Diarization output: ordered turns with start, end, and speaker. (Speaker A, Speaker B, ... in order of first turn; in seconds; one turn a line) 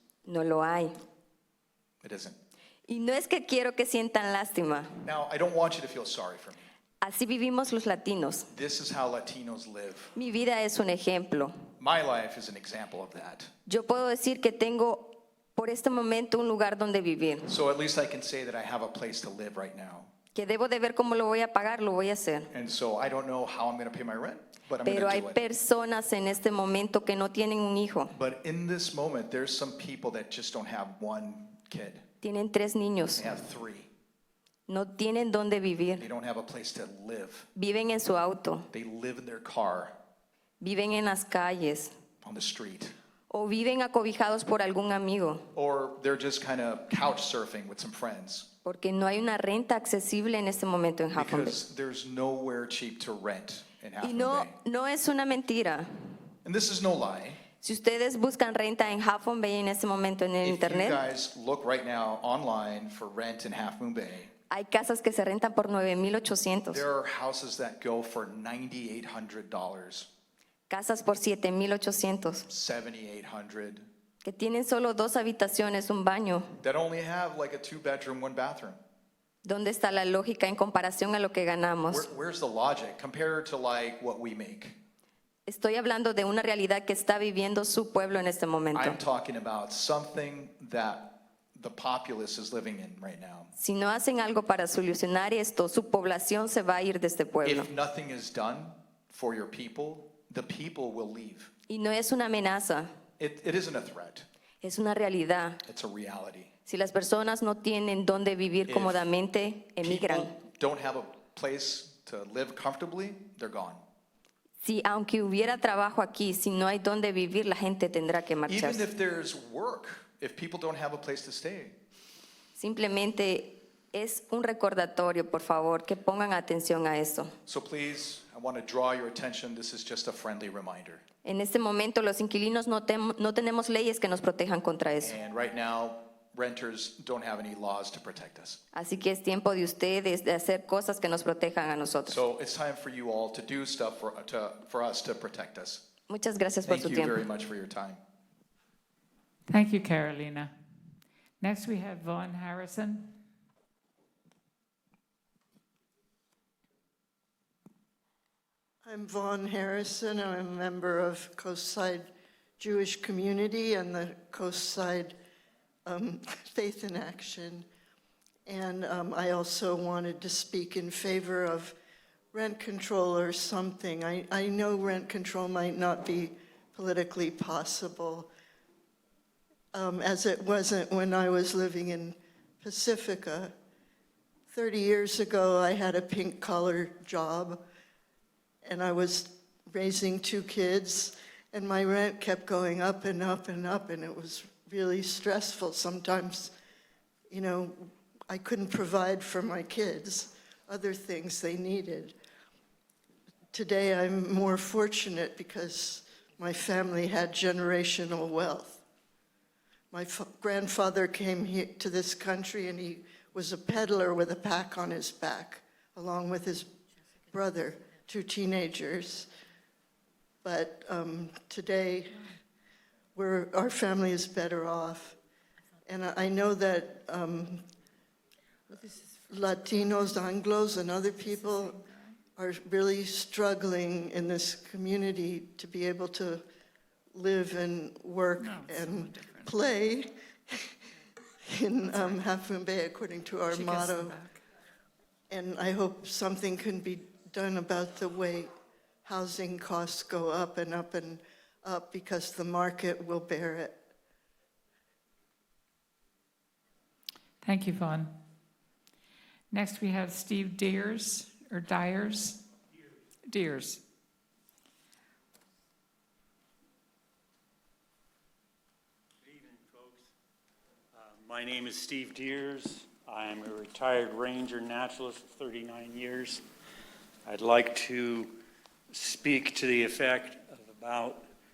Speaker A: 0.2-0.9
Speaker B: 2.0-2.4
Speaker A: 2.9-5.0
Speaker B: 5.0-6.6
Speaker A: 7.0-8.5
Speaker B: 8.5-10.1
Speaker A: 10.2-11.5
Speaker B: 11.8-13.5
Speaker A: 13.7-17.5
Speaker B: 17.5-20.1
Speaker A: 20.3-22.5
Speaker B: 22.5-25.4
Speaker A: 24.8-28.1
Speaker B: 28.1-32.0
Speaker A: 32.2-33.2
Speaker B: 33.2-33.9
Speaker A: 34.7-36.0
Speaker B: 36.0-37.5
Speaker A: 37.5-38.7
Speaker B: 38.7-39.9
Speaker A: 40.6-41.9
Speaker B: 42.2-42.9
Speaker A: 43.3-45.4
Speaker B: 45.5-48.5
Speaker A: 48.6-51.6
Speaker B: 51.1-54.5
Speaker A: 54.0-55.9
Speaker B: 56.4-57.4
Speaker A: 57.6-61.0
Speaker B: 60.4-64.3
Speaker A: 64.5-66.8
Speaker B: 66.7-70.1
Speaker A: 70.7-72.5
Speaker B: 72.5-73.8
Speaker A: 74.2-76.5
Speaker B: 76.6-78.8
Speaker A: 79.4-82.1
Speaker B: 81.9-84.8
Speaker A: 85.5-89.0
Speaker B: 88.7-93.5
Speaker A: 93.5-97.7
Speaker B: 97.4-101.5
Speaker A: 101.7-102.9
Speaker B: 103.2-104.2
Speaker A: 104.6-105.6
Speaker B: 105.6-106.5
Speaker A: 106.7-110.3
Speaker B: 108.7-109.1
Speaker B: 109.8-113.8
Speaker A: 114.6-118.8
Speaker B: 118.5-121.8
Speaker A: 122.5-127.3
Speaker B: 127.5-131.0
Speaker A: 131.2-135.2
Speaker B: 135.0-138.6
Speaker A: 138.7-142.2
Speaker B: 142.1-145.8
Speaker A: 146.1-147.2
Speaker B: 146.7-148.0
Speaker C: 149.5-150.5
Speaker C: 151.4-153.1
Speaker D: 158.8-165.2
Speaker D: 165.8-167.7
Speaker D: 168.4-171.7
Speaker D: 172.3-178.3
Speaker D: 179.7-183.5
Speaker D: 184.5-187.6
Speaker D: 188.6-196.5
Speaker D: 197.3-202.1
Speaker D: 203.5-208.8
Speaker D: 209.9-216.7
Speaker D: 217.3-219.3
Speaker D: 220.4-222.2
Speaker D: 223.1-225.2
Speaker D: 225.8-227.7
Speaker D: 229.3-231.8
Speaker C: 231.4-232.1
Speaker D: 232.3-236.4
Speaker D: 237.1-240.7
Speaker C: 238.4-239.5
Speaker D: 241.4-244.2
Speaker C: 243.5-244.4
Speaker D: 245.3-248.5
Speaker D: 249.0-253.8
Speaker C: 257.4-258.1
Speaker C: 259.5-262.4
Speaker C: 263.3-263.8
Speaker E: 269.2-270.1
Speaker E: 270.9-276.4
Speaker E: 277.2-278.4
Speaker E: 278.9-281.2